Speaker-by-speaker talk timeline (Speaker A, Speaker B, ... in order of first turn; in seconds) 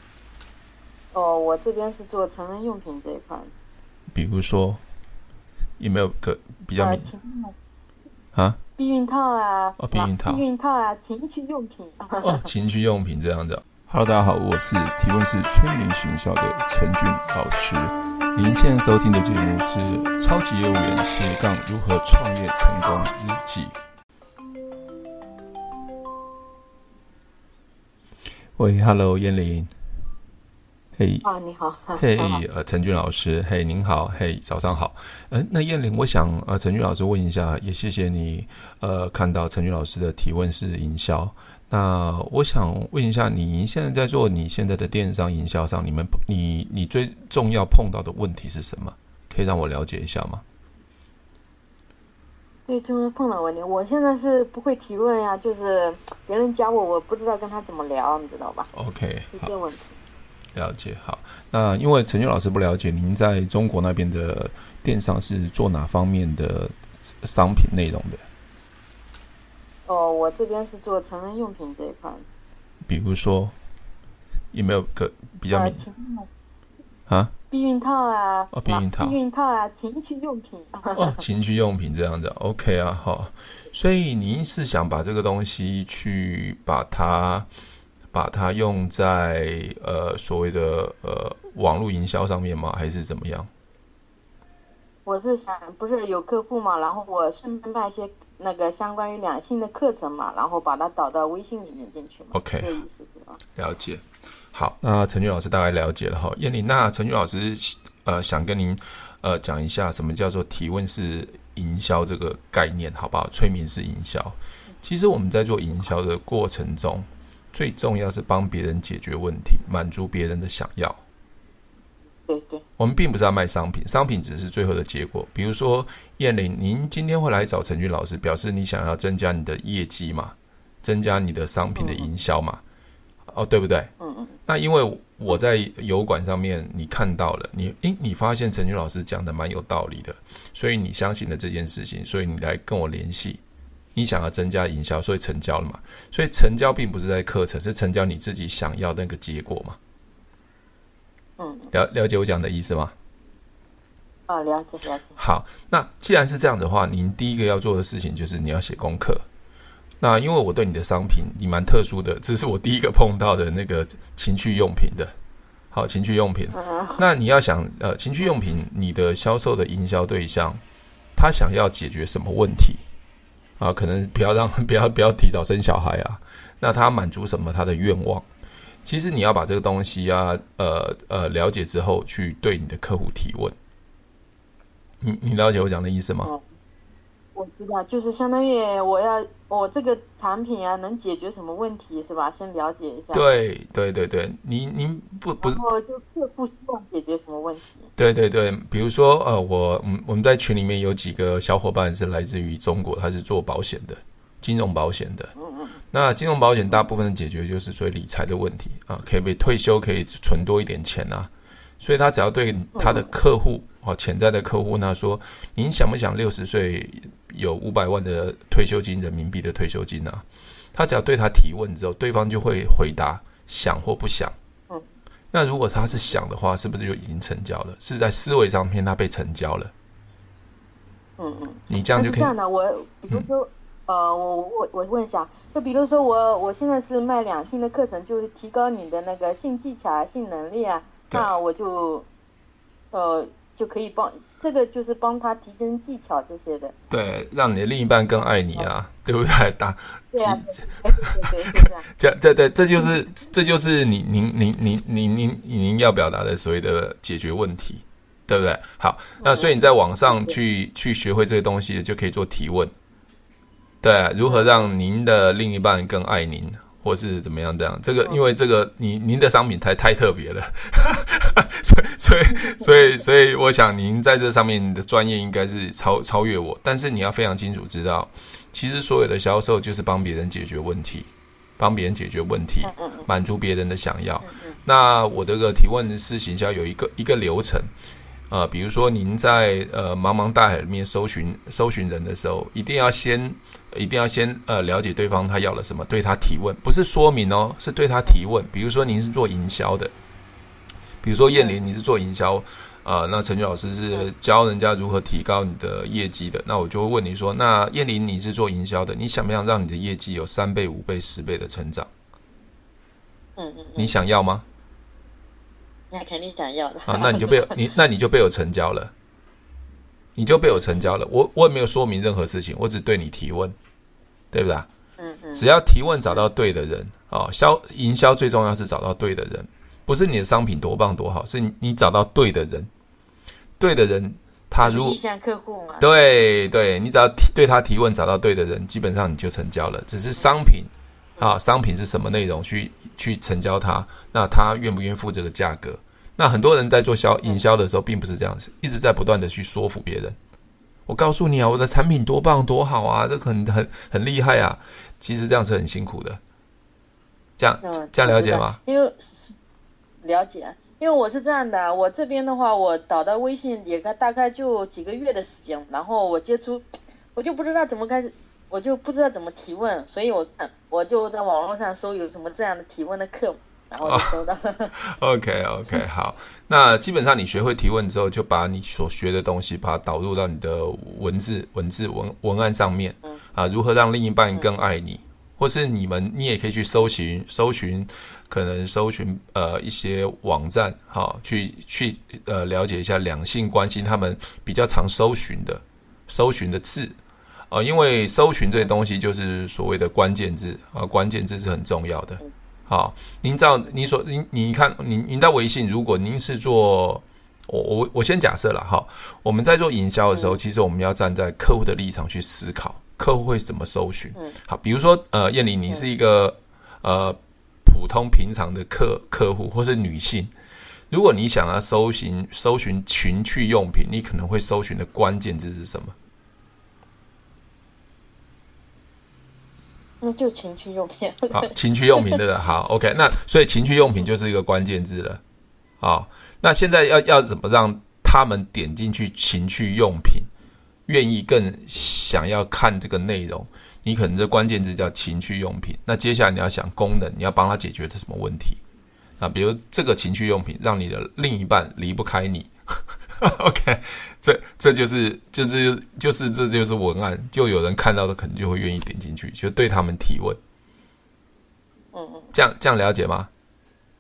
Speaker A: 1.1-3.5, 6.8-7.5, 8.8-12.4, 31.2-32.4, 52.7-58.7, 59.3-60.0, 69.8-72.2, 75.5-76.3, 77.5-81.2, 95.0-103.4, 122.3-122.6, 131.8-132.1, 134.0-134.3, 151.4-151.7, 154.3-155.2, 166.5-167.0, 187.3-193.2, 195.4-197.9, 205.3-205.8, 212.7-213.1, 225.8-226.1, 231.2-242.1, 242.9-246.7, 250.1-251.9, 259.2-260.4, 264.2-264.7, 272.3-273.1, 282.6-283.1, 284.2-284.6, 301.3-301.6, 313.4-313.9, 315.9-317.6, 320.4-320.8, 325.0-325.5, 334.6-335.8, 357.6-359.4, 360.0-374.8, 410.1-410.4, 430.0-432.2, 461.9-462.3
Speaker B: 4.1-4.8, 5.8-7.1, 8.3-8.6, 9.8-10.4, 12.2-23.7, 28.6-29.7, 31.0-31.2, 31.9-50.4, 58.7-59.5, 60.5-68.2, 72.8-73.5, 74.5-75.8, 77.1-77.3, 78.5-79.2, 80.9-87.5, 88.1-93.5, 102.3-102.7, 103.5-121.0, 122.8-132.6, 133.3-133.9, 134.5-143.4, 143.9-149.8, 151.7-152.9, 155.2-159.2, 160.0-165.1, 165.7-170.6, 171.1-172.8, 173.6-178.2, 178.8-183.5, 185.0-186.3, 193.1-195.6, 197.9-205.3, 205.9-224.3, 225.3-229.7, 231.7-232.3, 246.9-262.7, 263.8-287.7, 288.3-299.9, 301.0-311.9, 313.8-314.4, 316.9-318.9, 320.1-323.5, 324.3-324.7, 325.3-332.7, 333.6-335.0, 335.8-350.1, 350.9-356.2, 357.4-358.6, 373.8-374.1, 374.8-397.0, 397.5-420.3, 420.9-425.9, 431.3-435.2, 435.8-440.3, 440.9-448.6, 449.2-452.5, 453.2-460.4, 462.3-463.3